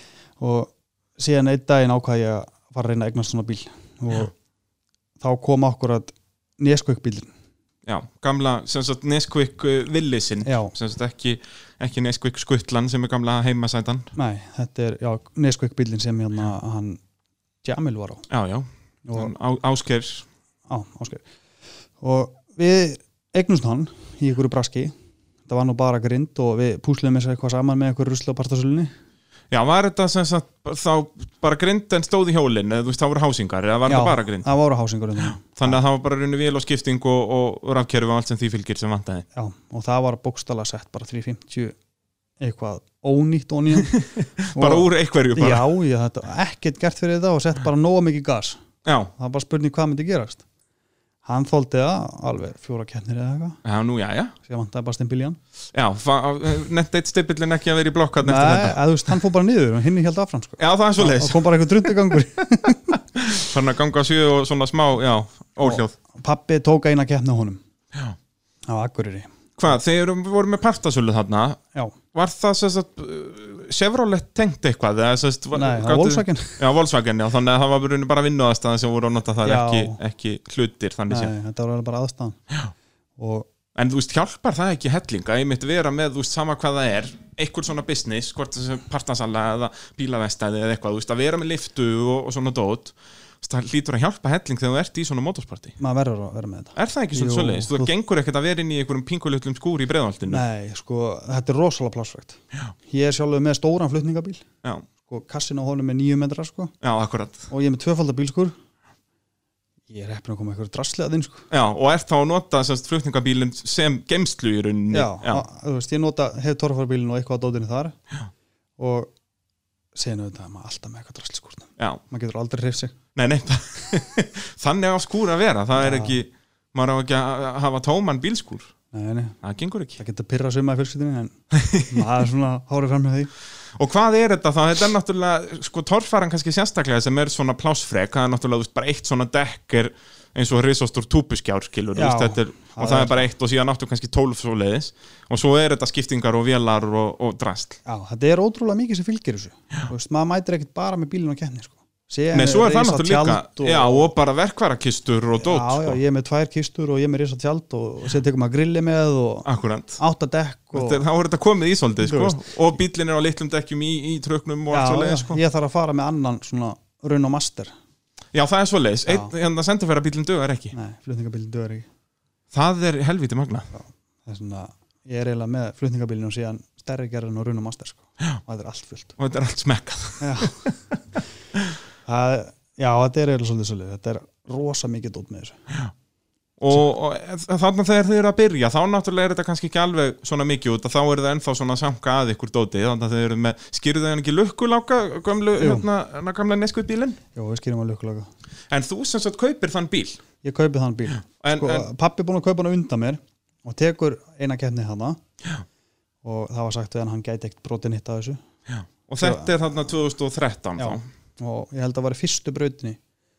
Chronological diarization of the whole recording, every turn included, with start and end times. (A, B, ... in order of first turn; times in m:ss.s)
0:00.4-0:04.3 A
0:05.2-0:07.3 A
0:07.9-0:14.1 B
0:10.4-0:10.7 A
0:14.2-0:17.0 A
0:17.6-0:18.2 A
0:18.3-0:20.3 B
0:19.1-0:19.3 A
0:20.7-0:21.2 A
0:22.0-0:24.9 A
0:25.5-0:28.9 A
0:29.5-0:34.5 B
0:33.9-0:35.8 A
0:35.4-0:39.3 B
0:39.3-0:41.8 A
0:42.4-0:44.0 A
0:43.8-0:45.7 B
0:44.6-0:48.6 A
0:48.8-0:49.1 B
0:49.2-0:50.4 A
0:51.2-0:53.6 A
0:53.6-0:54.4 B
0:54.4-0:55.4 A
0:55.7-0:58.8 B
0:58.2-1:03.0 A
1:00.6-1:01.6 B
1:03.2-1:05.9 B
1:05.6-1:07.6 A
1:08.7-1:09.3 A
1:09.6-1:11.6 B
1:12.1-1:21.3 B
1:15.6-1:16.6 A
1:19.4-1:20.0 A
1:21.1-1:22.4 A
1:23.2-1:23.5 A
1:23.8-1:35.8 B
1:35.8-1:37.9 A
1:36.8-1:40.4 B
1:40.3-1:44.4 A
1:45.0-1:46.7 A
1:46.8-1:47.5 B
1:47.5-1:48.5 A
1:49.9-1:51.5 A
1:51.5-1:55.4 B
1:54.9-1:57.9 A
1:58.8-1:59.1 A
1:59.9-2:03.0 A
2:03.2-2:08.7 B
2:05.8-2:06.2 A
2:08.9-2:09.4 A
2:09.4-2:10.0 B
2:10.0-2:13.3 A
2:11.5-2:12.1 B
2:13.8-2:27.8 B
2:22.0-2:23.3 A
2:27.9-2:34.1 A
2:32.3-2:36.0 B
2:35.4-2:39.5 A
2:39.4-2:40.0 B
2:40.0-2:41.0 A
2:40.7-2:45.4 B
2:42.0-2:42.4 A
2:44.7-2:47.7 A
2:48.3-2:50.8 B
2:49.1-2:49.3 A
2:50.7-2:51.9 A
2:52.5-2:53.7 B
2:53.8-2:59.1 A
2:59.2-3:00.8 B
3:00.2-3:00.7 A
3:02.1-3:05.6 A
3:06.6-3:17.2 B
3:15.6-3:15.9 A
3:17.3-3:18.3 A
3:18.7-3:20.2 B
3:20.4-3:25.2 A
3:21.2-3:21.9 B
3:26.2-3:28.4 A
3:28.7-3:31.1 B
3:29.2-3:29.5 A
3:30.8-3:33.0 A